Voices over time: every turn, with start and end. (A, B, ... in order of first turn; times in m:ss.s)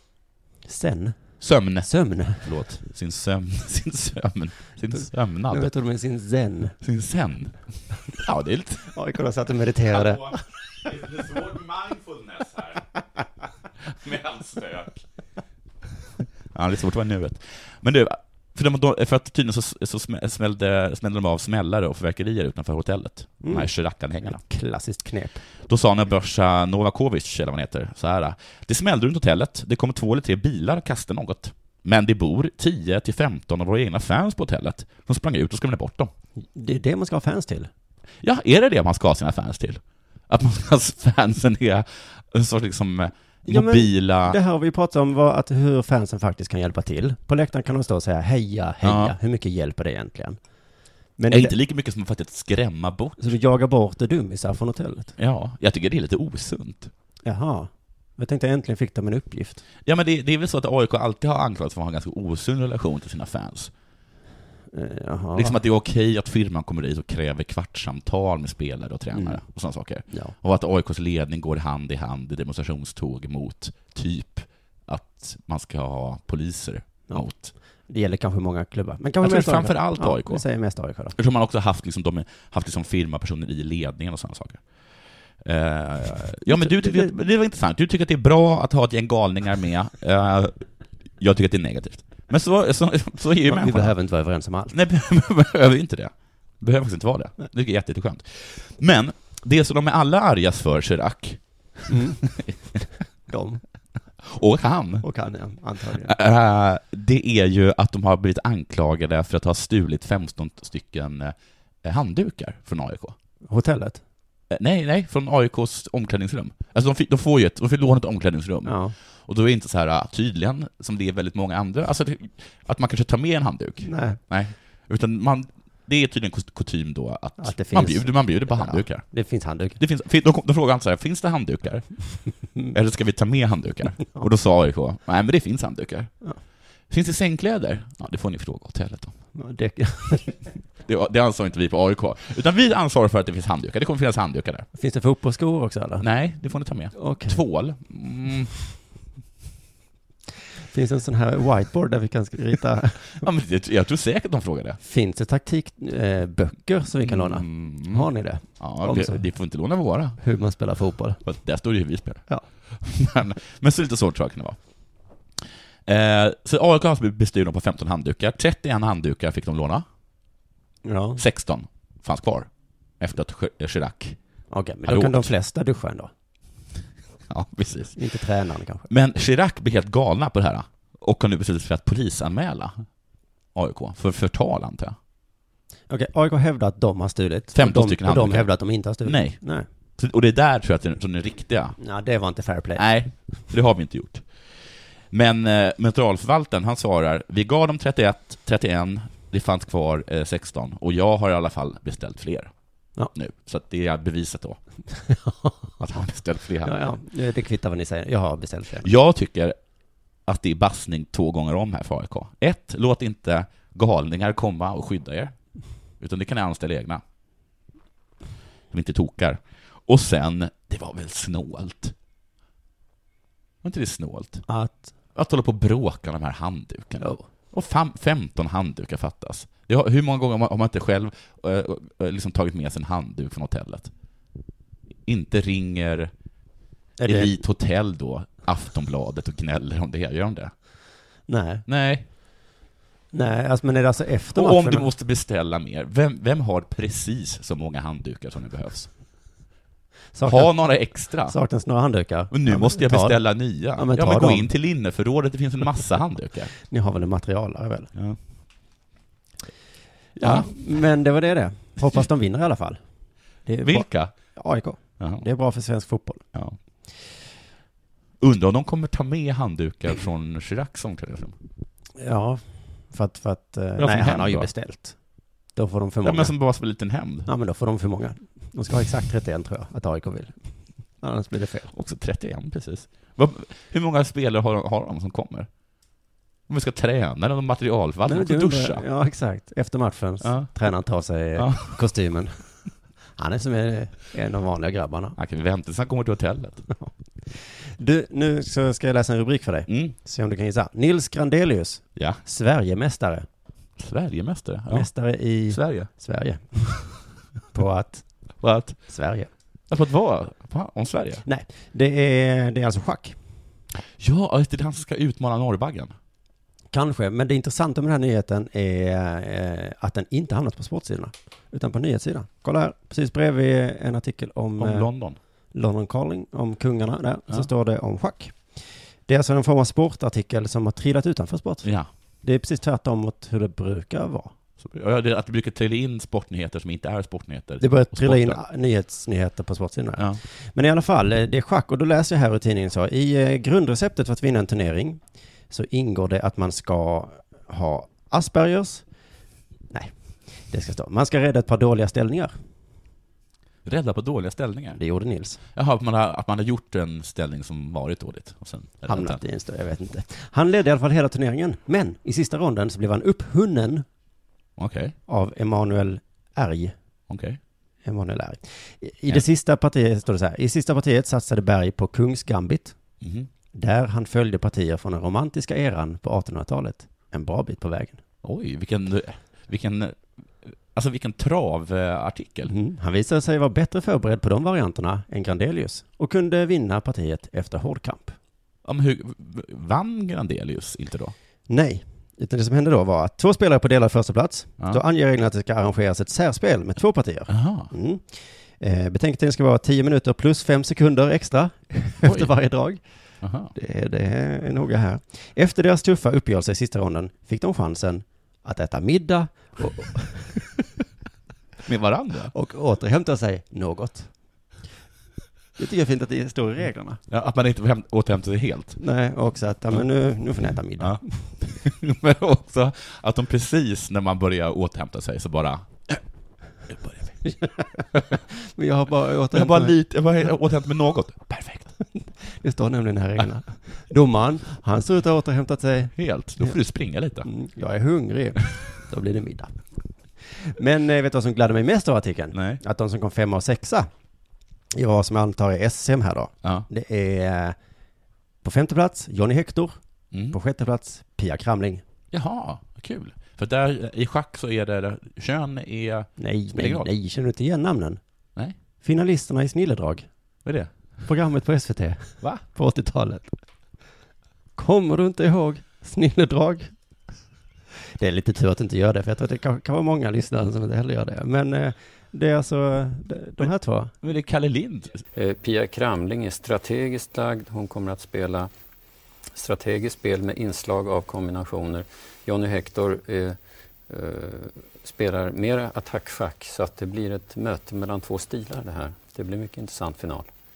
0:00.6-0:02.5 A
0:01.4-0:05.7 B
0:04.9-0:06.8 A
0:06.8-0:08.9 B
0:08.9-0:10.4 A
0:09.9-0:12.9 B
0:13.8-0:15.0 B
0:16.5-0:24.4 B
0:23.4-0:25.4 A
0:25.6-0:36.1 B
0:36.5-0:37.7 A
0:38.2-0:44.4 B
0:43.5-0:50.4 A
0:48.8-0:49.1 B
0:51.2-0:51.5 A
0:51.3-0:53.4 B
0:53.2-0:55.1 A
0:55.2-0:56.9 B
0:57.2-0:59.6 A
0:59.8-1:03.7 B
1:04.7-1:05.6 A
1:05.3-1:17.5 B
1:09.1-1:09.4 A
1:10.1-1:10.3 A
1:17.1-1:21.1 A
1:19.2-1:20.4 B
1:21.1-1:30.6 B
1:26.5-1:27.1 A
1:31.2-1:33.9 B
1:33.4-1:34.7 A
1:34.7-1:42.5 B
1:41.9-1:42.4 A
1:43.3-1:43.6 A
1:44.2-1:45.1 B
1:45.0-1:46.1 A
1:46.0-1:53.1 B
1:53.5-1:54.0 A
1:54.5-2:09.2 B
1:58.6-1:58.9 A
2:03.8-2:04.2 A
2:07.4-2:09.8 A
2:09.8-2:16.3 B
2:16.9-2:19.2 B
2:19.3-2:20.4 A
2:20.8-2:24.7 B
2:24.7-2:26.1 A
2:26.0-2:28.5 B
2:26.9-2:27.4 A
2:30.7-2:33.2 A
2:33.1-2:34.8 B
2:34.8-2:39.3 A
2:37.0-2:40.2 B
2:40.2-2:41.2 A
2:41.2-2:44.6 B
2:45.8-2:49.8 B
2:50.8-2:51.2 A
2:51.2-2:54.2 B
2:54.5-2:56.1 A
2:54.8-2:55.3 B
2:57.3-2:58.1 B
2:58.0-2:58.9 A
2:58.9-3:02.9 B
3:03.5-3:05.0 B
3:05.9-3:09.7 A
3:07.5-3:11.8 B
3:11.8-3:12.8 A
3:12.8-3:14.5 B
3:15.1-3:22.5 B
3:23.1-3:24.6 B
3:25.1-3:25.8 A
3:25.8-3:26.7 B
3:26.6-3:28.9 A
3:28.8-3:29.6 B
3:30.2-3:35.4 B
3:36.0-3:37.0 B
3:38.7-3:41.9 B
3:43.6-3:44.4 B
3:44.5-3:44.9 A
3:45.1-3:53.9 B
3:47.0-3:47.3 A
3:55.0-3:56.1 B
3:57.0-3:57.4 A
3:57.0-4:00.5 B
4:01.3-4:01.6 A
4:01.7-4:02.0 B
4:03.1-4:04.9 A
4:04.3-4:08.9 B
4:10.1-4:14.5 A
4:10.2-4:11.4 B
4:12.3-4:16.5 B
4:16.7-4:17.9 A
4:20.2-4:22.8 A
4:20.2-4:20.5 B
4:23.4-4:26.2 A
4:23.6-4:24.3 B
4:25.0-4:25.2 B
4:28.2-4:31.4 B
4:32.0-4:35.0 A
4:33.8-4:34.5 B
4:35.5-4:36.4 A
4:36.0-4:37.3 B
4:37.2-4:41.7 A
4:41.7-4:45.5 B
4:46.5-4:48.8 B
4:48.0-4:55.2 A
4:50.2-4:50.5 B
4:51.3-4:51.8 B
4:55.2-4:56.6 B
4:56.8-5:03.2 A
4:59.7-4:59.9 B
5:02.0-5:02.2 B
5:03.8-5:05.9 B
5:04.7-5:09.3 A
5:08.4-5:08.9 B
5:09.7-5:11.2 B
5:11.2-5:13.2 A
5:13.8-5:15.9 B
5:16.7-5:24.9 A
5:24.6-5:25.2 B
5:25.5-5:34.3 A
5:31.6-5:31.9 B
5:34.6-5:38.4 B
5:37.6-5:48.8 A
5:40.0-5:40.2 B
5:49.7-5:52.3 A
5:53.6-5:54.8 B
5:54.7-5:55.4 A
5:55.5-5:59.2 B
5:58.9-6:03.8 A
6:04.6-6:04.9 B
6:05.1-6:06.7 A
6:07.1-6:07.4 B
6:07.8-6:12.7 A
6:13.0-6:13.3 B
6:13.5-6:18.0 A
6:18.2-6:22.5 B
6:22.5-6:28.2 A
6:28.6-6:31.1 B
6:31.5-6:42.8 A
6:37.3-6:37.7 B
6:42.0-6:42.3 B
6:43.2-6:43.5 B
6:43.5-6:50.4 A
6:51.6-6:52.3 B
6:52.3-6:54.1 A
6:55.6-6:57.0 A
6:57.1-6:58.8 B
6:58.8-7:01.3 A
7:00.8-7:06.0 B
7:06.7-7:07.1 B
7:07.2-7:09.8 A
7:09.3-7:11.7 B
7:11.9-7:16.6 A
7:16.0-7:17.3 B
7:17.2-7:19.6 A
7:20.2-7:23.9 A
7:22.3-7:22.6 B
7:24.7-7:27.6 A
7:28.4-7:29.8 A
7:30.1-7:30.4 B
7:30.3-7:31.8 A
7:32.1-7:36.9 B
7:36.2-7:38.0 A
7:38.8-7:40.1 A
7:40.4-7:40.7 B
7:41.0-7:43.4 A
7:44.6-7:46.7 A
7:48.0-7:53.9 A
7:54.0-7:55.0 B
7:55.1-7:58.5 C
7:59.3-8:10.3 C